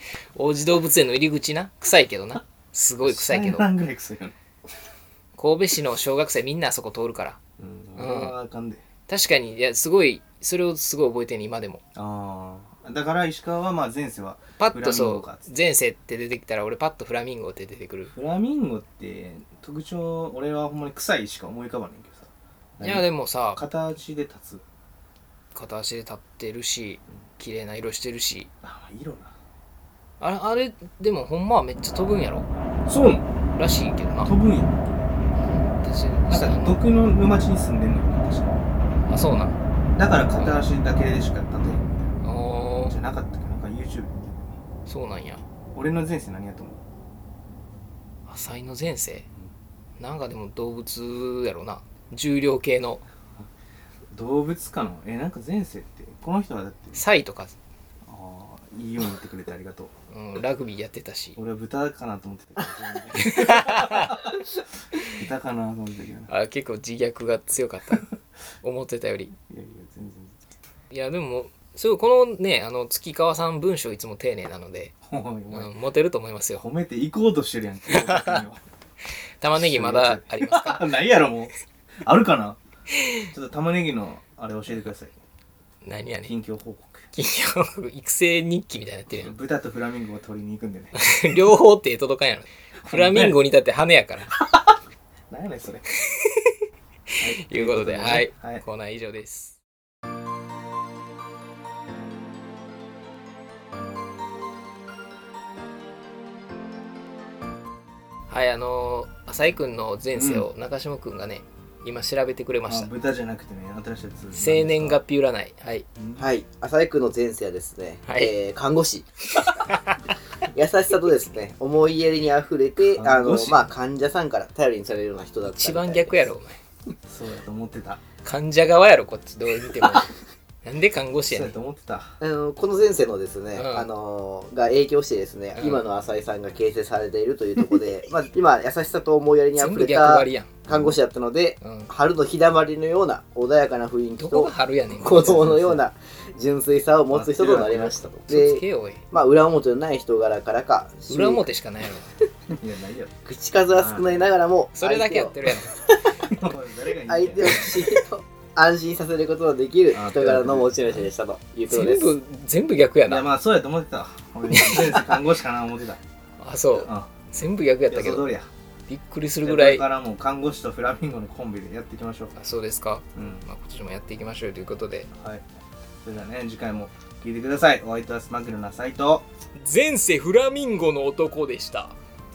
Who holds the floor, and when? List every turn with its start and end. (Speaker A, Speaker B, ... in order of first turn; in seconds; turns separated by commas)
Speaker A: 0.3-3.6, Speaker B: 3.0-4.3, Speaker A: 5.3-7.4, Speaker B: 7.6-8.8, Speaker A: 8.0-8.3, Speaker A: 9.1-11.8, Speaker B: 11.9-15.5, Speaker A: 14.6-18.1, Speaker B: 18.1-24.6, Speaker A: 22.8-23.6, Speaker A: 25.5-28.5, Speaker B: 28.6-29.3, Speaker A: 30.2-32.5, Speaker B: 32.9-33.3, Speaker A: 33.5-34.3, Speaker B: 34.2-34.8, Speaker A: 35.4-36.8, Speaker B: 36.3-38.6, Speaker A: 39.1-39.5, Speaker B: 40.0-42.1, Speaker A: 42.2-42.9, Speaker B: 42.9-44.5, Speaker A: 44.9-45.4, Speaker B: 45.7-46.8, Speaker A: 48.3-49.2, Speaker A: 50.0-53.0, Speaker B: 54.1-57.0, Speaker A: 56.9-57.5, Speaker B: 58.0-59.9, Speaker A: 60.1-61.4, Speaker B: 61.4-64.4, Speaker A: 63.1-64.3, Speaker B: 65.0-66.3, Speaker A: 66.3-68.1, Speaker A: 68.6-69.3, Speaker B: 69.5-70.3, Speaker A: 70.9-74.9, Speaker B: 75.0-75.7, Speaker A: 75.5-76.6, Speaker B: 76.6-78.6, Speaker A: 77.9-78.4, Speaker A: 79.4-80.9, Speaker B: 79.5-82.6, Speaker A: 82.9-83.2, Speaker B: 83.3-85.2, Speaker A: 85.8-86.3, Speaker B: 86.2-87.1, Speaker A: 87.1-89.3, Speaker B: 89.1-91.0, Speaker A: 91.0-94.3, Speaker B: 92.8-93.4, Speaker B: 95.3-95.9, Speaker A: 96.1-96.5, Speaker B: 97.2-98.6, Speaker A: 97.4-99.6, Speaker A: 108.3-112.9, Speaker B: 110.1-110.5, Speaker B: 112.7-115.0, Speaker A: 114.3-115.8, Speaker B: 116.0-116.3, Speaker C: 116.2-119.0, Speaker A: 118.0-118.3, Speaker A: 119.3-120.2, Speaker C: 120.5-126.2, Speaker B: 122.9-123.7, Speaker A: 125.4-126.6, Speaker B: 127.1-128.0, Speaker A: 128.2-130.1, Speaker A: 130.6-131.5, Speaker B: 131.3-132.2, Speaker C: 132.2-151.4, Speaker A: 133.5-133.9, Speaker A: 135.6-135.8, Speaker A: 139.6-140.7, Speaker A: 141.6-141.9, Speaker A: 144.2-145.7, Speaker B: 145.2-145.8, Speaker B: 147.1-147.9, Speaker A: 148.3-149.0, Speaker A: 151.1-152.1, Speaker B: 152.5-153.1, Speaker C: 153.2-155.3, Speaker B: 153.7-154.3, Speaker A: 154.8-156.0, Speaker C: 155.9-156.3, Speaker B: 156.2-158.0, Speaker C: 157.1-162.1, Speaker B: 159.9-161.0, Speaker A: 161.7-163.2, Speaker B: 163.1-166.0, Speaker A: 164.5-165.1, Speaker A: 166.4-168.3, Speaker B: 166.8-167.1, Speaker B: 167.9-168.5, Speaker A: 168.9-169.8, Speaker B: 169.4-172.3, Speaker A: 172.3-175.1, Speaker B: 173.1-173.5, Speaker B: 175.2-175.4, Speaker B: 176.0-179.2, Speaker A: 179.6-181.9